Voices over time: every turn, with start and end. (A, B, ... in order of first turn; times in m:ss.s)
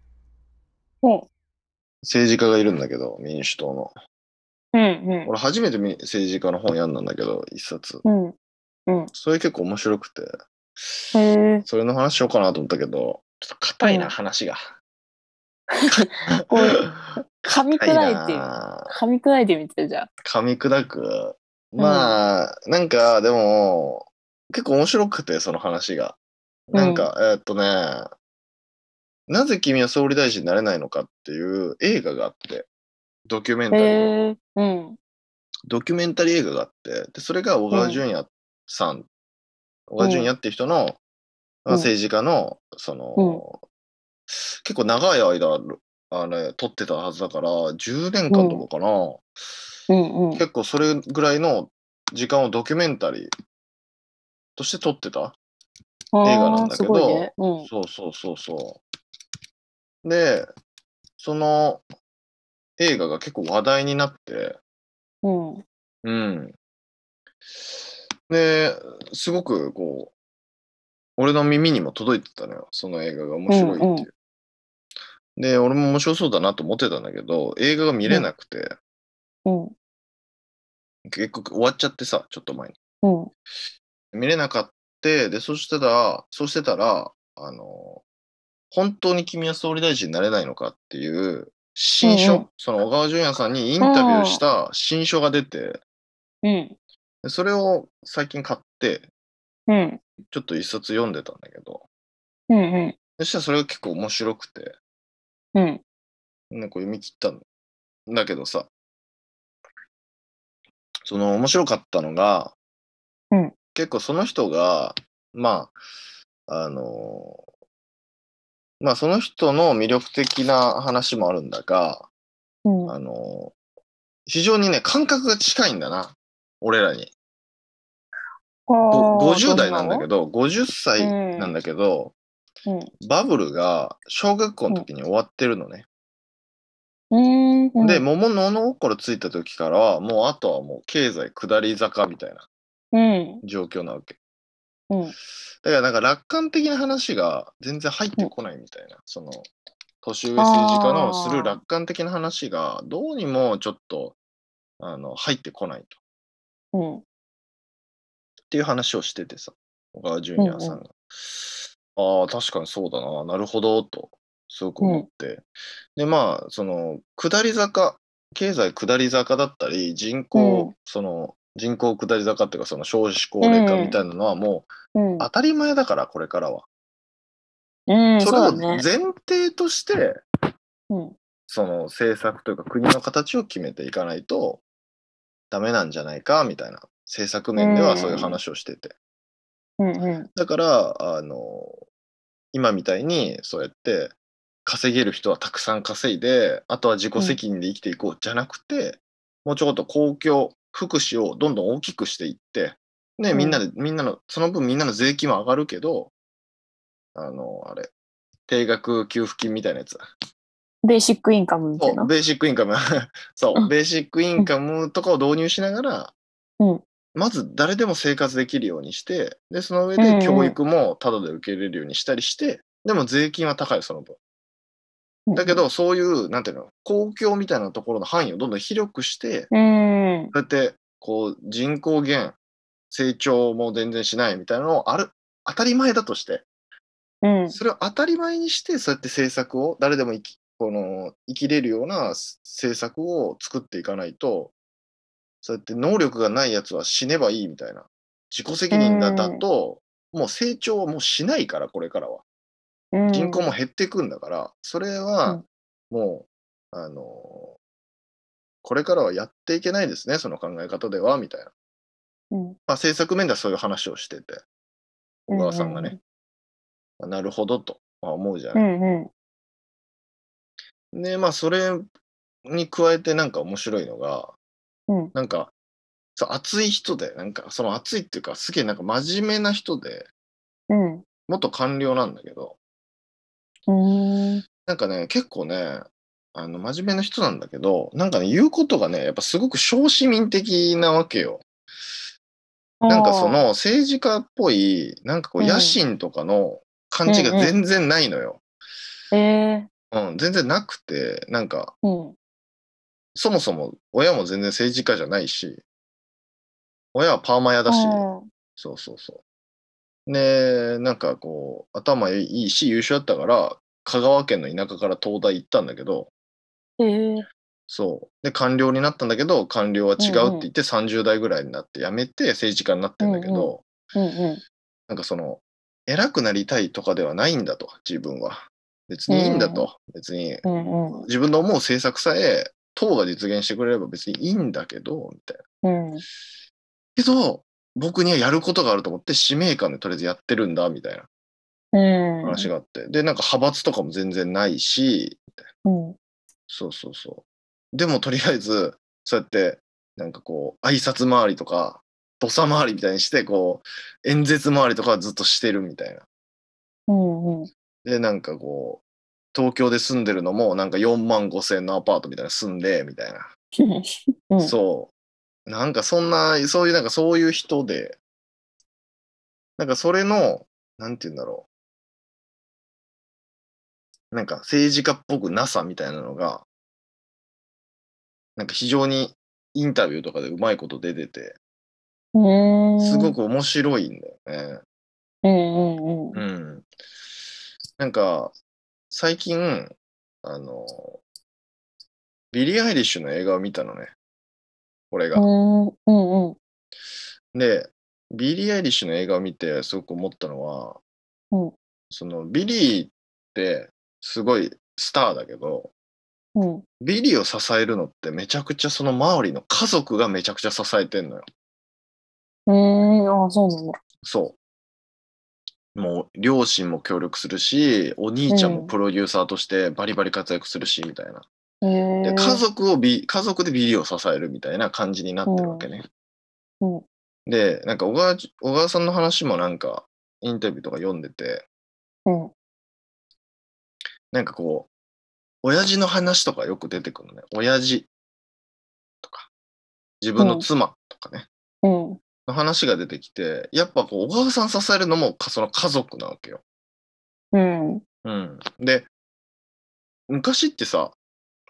0:01.0-0:01.3 A
0:02.0-0:03.9 B
0:04.7-0:05.3 A
0:05.3-0:08.0 B
0:08.0-0:08.4 A
0:09.1-0:11.0 B
0:11.1-0:11.6 A
0:11.7-0:14.6 B
0:13.8-0:14.1 A
0:15.7-0:16.8 A
0:17.4-0:20.1 A
0:17.7-0:18.9 B
0:20.2-0:26.2 B
0:21.8-0:22.2 A
0:26.7-0:28.1 B
0:26.7-0:27.1 A
0:29.3-0:32.7 B
0:33.3-0:34.1 B
0:33.7-0:35.0 A
0:35.7-0:39.1 B
0:37.7-0:38.0 A
0:39.9-0:41.0 B
0:40.0-0:40.3 A
0:41.6-0:43.6 B
0:43.2-0:43.4 A
0:44.3-0:49.2 B
0:48.3-0:48.6 A
0:49.9-0:50.4 A
0:50.4-0:53.3 B
0:54.6-0:55.4 B
0:56.1-0:57.7 A
0:56.2-0:58.8 B
1:00.0-1:00.5 B
1:01.2-1:01.8 B
1:02.8-1:04.6 B
1:05.2-1:05.6 A
1:06.0-1:06.5 B
1:08.3-1:10.1 B
1:11.2-1:14.1 B
1:13.5-1:14.1 A
1:15.4-1:18.7 B
1:19.5-1:19.7 A
1:21.1-1:22.8 B
1:23.0-1:23.3 A
1:24.1-1:28.0 B
1:28.7-1:35.8 B
1:32.0-1:32.5 A
1:33.8-1:34.4 A
1:36.4-1:36.8 A
1:37.2-1:39.1 B
1:39.7-1:40.0 A
1:40.3-1:41.8 B
1:42.5-1:43.0 A
1:43.2-1:44.8 B
1:45.6-1:45.8 A
1:46.5-1:47.4 B
1:48.1-1:48.7 B
1:51.1-1:52.6 B
1:53.8-1:55.8 B
1:56.5-1:57.4 B
1:58.8-2:02.1 B
2:02.7-2:02.9 A
2:02.9-2:03.6 B
2:04.3-2:07.1 B
2:08.7-2:10.0 A
2:08.9-2:12.1 B
2:11.0-2:11.5 A
2:13.0-2:15.9 B
2:17.1-2:18.0 A
2:17.8-2:22.4 B
2:22.9-2:23.4 A
2:23.4-2:24.2 B
2:25.6-2:29.5 B
2:30.0-2:34.2 B
2:30.4-2:31.6 A
2:34.8-2:36.0 B
2:36.7-2:37.0 A
2:38.5-2:45.4 B
2:40.4-2:40.8 A
2:44.8-2:45.1 A
2:46.0-2:56.6 B
2:50.4-2:50.7 A
2:53.4-2:54.0 A
2:55.0-2:55.3 A
2:57.9-2:58.8 A
2:58.2-3:00.2 B
3:01.5-3:04.6 B
3:05.5-3:09.0 B
3:07.6-3:08.4 A
3:09.8-3:10.3 A
3:10.4-3:11.8 B
3:12.5-3:14.1 B
3:14.6-3:26.1 B
3:23.3-3:23.6 A
3:27.2-3:27.9 B
3:28.5-3:30.0 B
3:30.8-3:32.1 A
3:31.8-3:36.1 B
3:37.2-3:44.2 B
3:40.0-3:40.6 A
3:45.3-3:45.6 A
3:45.4-3:49.5 B
3:49.5-3:50.3 A
3:50.3-3:52.4 B
3:52.9-3:56.5 B
3:57.2-3:57.6 A
3:57.5-4:04.5 B
4:05.4-4:12.2 B
4:08.7-4:09.4 A
4:12.9-4:13.5 A
4:13.1-4:17.6 B
4:18.6-4:21.5 B
4:22.3-4:22.6 A
4:22.7-4:24.4 B
4:25.3-4:26.0 B
4:25.3-4:26.0 A
4:27.0-4:28.6 B
4:28.6-4:29.1 A
4:30.9-4:31.9 B
4:32.5-4:34.3 B
4:35.1-4:35.5 B
4:36.2-4:40.1 B
4:40.7-4:41.0 A
4:41.3-4:42.6 B
4:43.7-4:44.4 A
4:44.7-4:45.8 B
4:46.4-4:51.4 B
4:52.8-4:53.4 A
4:52.9-4:58.4 B
4:55.4-4:55.8 A
4:57.1-4:57.6 A
4:59.1-4:59.7 A
4:59.9-5:01.7 B
5:01.8-5:02.2 A
5:03.2-5:05.6 B
5:07.0-5:09.2 B
5:07.7-5:08.3 A
5:10.1-5:16.1 B
5:16.8-5:17.3 A
5:17.7-5:23.6 B
5:20.0-5:20.5 A
5:23.0-5:24.4 A
5:24.9-5:30.5 B
5:29.1-5:29.7 A
5:30.4-5:31.1 A
5:31.0-5:35.4 B
5:35.6-5:36.0 A
5:37.0-5:41.1 B
5:41.7-5:42.5 A
5:42.2-5:45.3 B
5:45.6-5:46.0 A
5:46.5-5:56.0 B
5:56.9-5:57.5 A
5:57.8-5:58.8 B
5:59.3-6:03.3 B
6:03.6-6:04.6 A
6:04.4-6:04.9 B
6:05.5-6:08.0 B
6:09.6-6:11.5 B
6:14.1-6:16.4 B
6:18.4-6:21.4 B
6:22.1-6:23.1 A
6:22.8-6:24.6 B
6:25.2-6:26.2 A
6:26.2-6:26.7 B
6:27.8-6:28.3 B
6:28.9-6:31.0 B
6:32.3-6:33.9 B
6:34.9-6:35.2 B
6:35.2-6:36.4 A
6:37.3-6:40.8 B
6:41.9-6:45.7 B
6:46.4-6:46.6 A
6:46.8-6:51.3 B
6:52.5-6:53.8 A
6:54.0-6:54.4 B
6:55.8-7:01.2 B
6:58.3-6:58.7 A
7:01.6-7:02.4 A
7:02.0-7:05.9 B
7:05.3-7:05.7 A
7:07.3-7:11.5 B
7:12.1-7:12.3 A
7:14.1-7:14.7 B
7:15.4-7:17.9 B
7:19.0-7:19.3 B
7:20.0-7:21.3 B
7:20.2-7:20.5 A
7:21.6-7:22.0 A
7:22.3-7:26.4 B
7:27.3-7:27.8 A
7:28.0-7:28.9 B
7:30.1-7:31.0 B